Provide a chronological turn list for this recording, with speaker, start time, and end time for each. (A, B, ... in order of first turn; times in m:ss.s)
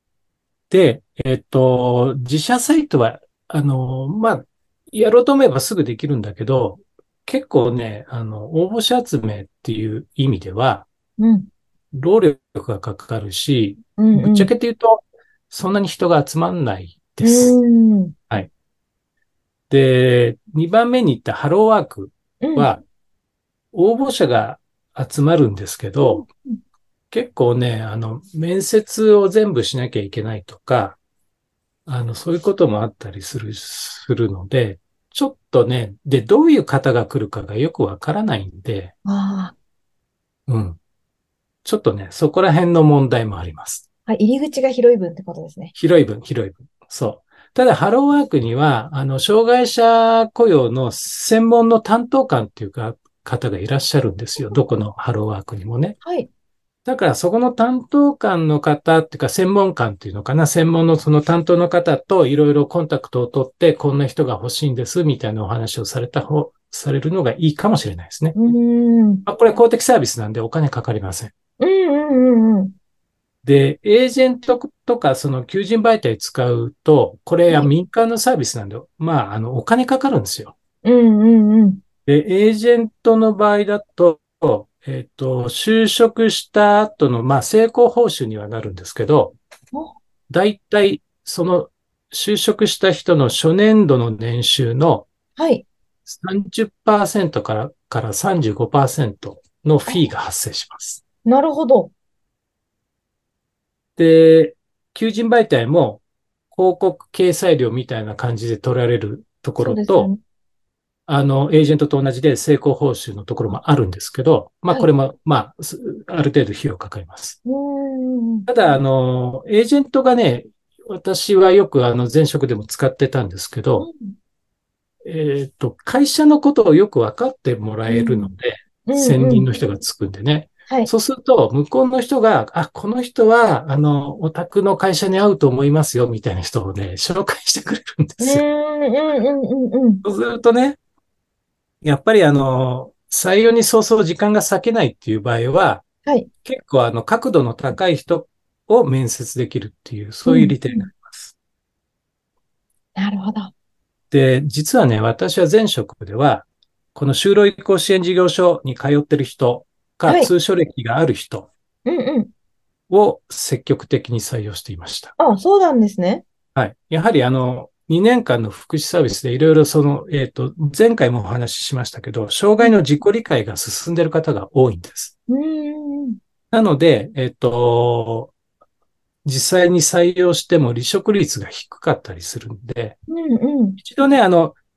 0:00.7-0:10.9 A
0:11.2-0:11.5 B
0:11.9-0:17.6 A
0:14.0-0:14.5 B
0:17.2-0:18.1 B
0:19.7-0:22.8 A
0:22.4-0:22.7 B
0:23.7-0:26.3 A
0:26.0-0:26.6 B
0:27.1-0:31.0 A
0:31.8-0:38.9 A
0:39.0-0:39.5 B
0:40.5-0:40.8 A
0:41.6-0:43.8 A
0:44.1-0:45.7 B
0:45.7-0:56.0 A
0:56.0-0:56.3 B
0:56.8-1:08.5 A
1:08.4-1:09.2 B
1:09.2-1:11.3 A
1:11.6-1:12.7 B
1:13.4-1:20.5 A
1:20.8-1:21.8 B
1:22.0-1:29.4 A
1:30.3-1:35.1 A
1:35.4-1:35.6 B
1:36.0-1:41.0 A
1:41.2-1:41.9 B
1:44.0-1:50.1 A
1:49.6-1:50.2 B
1:51.1-1:57.4 A
1:57.4-1:58.5 B
1:58.5-2:03.9 A
2:03.8-2:04.1 B
2:05.0-2:18.4 A
2:07.9-2:08.3 B
2:08.9-2:09.5 B
2:18.2-2:20.0 B
2:20.0-2:20.8 A
2:21.8-2:25.8 A
2:26.4-2:31.3 A
2:30.3-2:30.9 B
2:33.0-2:33.5 B
2:34.1-2:41.5 A
2:41.8-2:42.3 B
2:42.9-2:45.1 A
2:45.2-2:46.2 B
2:46.5-2:55.1 A
2:55.3-2:56.2 B
2:56.5-2:58.3 A
2:59.2-3:03.0 A
3:03.1-3:03.8 B
3:03.8-3:04.6 A